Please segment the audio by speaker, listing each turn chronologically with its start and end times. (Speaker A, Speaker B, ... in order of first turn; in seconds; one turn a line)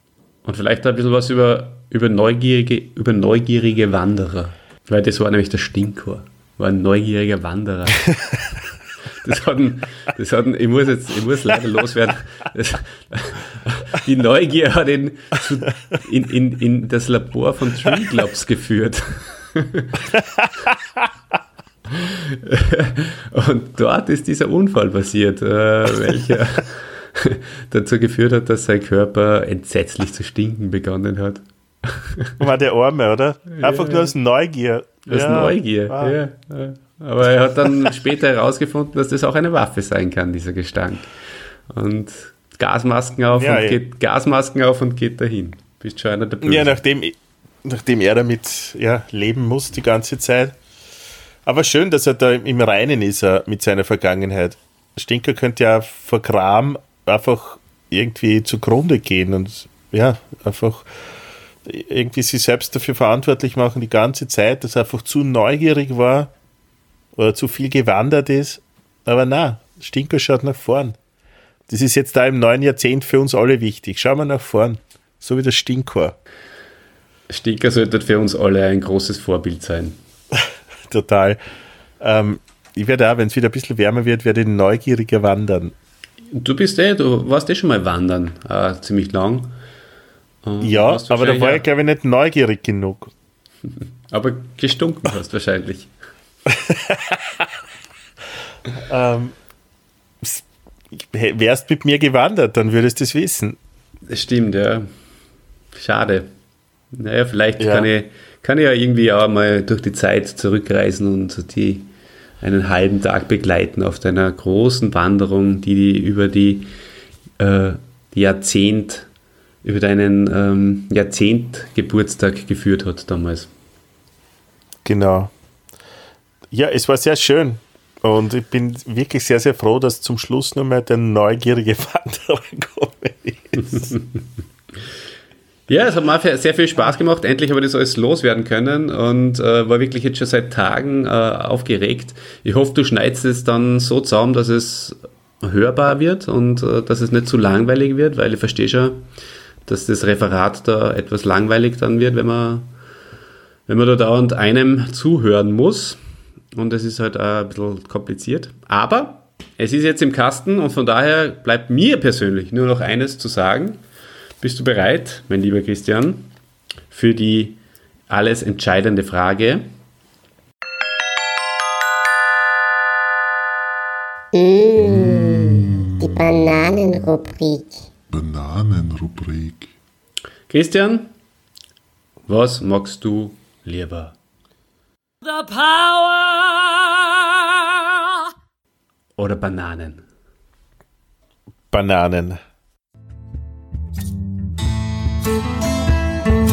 Speaker A: 0.4-8.1
Speaker A: 9.1-20.1
Speaker B: 20.4-20.7
Speaker A: 21.9-32.4
Speaker B: 32.4-36.2
Speaker A: 33.5-34.1
Speaker A: 35.0-41.1
Speaker A: 41.7-46.8
Speaker B: 43.3-43.8
Speaker B: 46.4-50.6
Speaker B: 51.4-60.9
Speaker B: 61.6-66.3
Speaker B: 67.1-71.0
Speaker B: 71.7-76.2
Speaker A: 77.3-80.0
Speaker B: 80.3-81.4
Speaker B: 82.0-85.7
Speaker A: 86.3-89.5
Speaker A: 90.4-91.6
Speaker B: 90.6-93.1
Speaker A: 94.1-95.9
Speaker B: 96.5-97.5
Speaker B: 98.7-99.3
Speaker B: 100.2-103.6
Speaker A: 104.1-104.9
Speaker A: 105.7-106.3
Speaker A: 106.9-111.9
Speaker B: 107.6-107.9
Speaker A: 112.4-116.7
Speaker A: 117.4-119.1
Speaker A: 119.6-123.5
Speaker B: 124.8-125.3
Speaker B: 126.5-133.9
Speaker A: 135.7-149.0
Speaker A: 149.7-152.7
Speaker A: 153.7-156.0
Speaker A: 156.5-163.8
Speaker A: 164.4-166.3
Speaker A: 166.9-169.7
Speaker C: 174.3-177.8
Speaker D: 174.8-175.9
Speaker D: 178.1-179.7
Speaker A: 180.5-181.1
Speaker A: 182.3-184.2
Speaker E: 185.2-188.2
Speaker A: 189.2-190.0
Speaker B: 191.7-192.4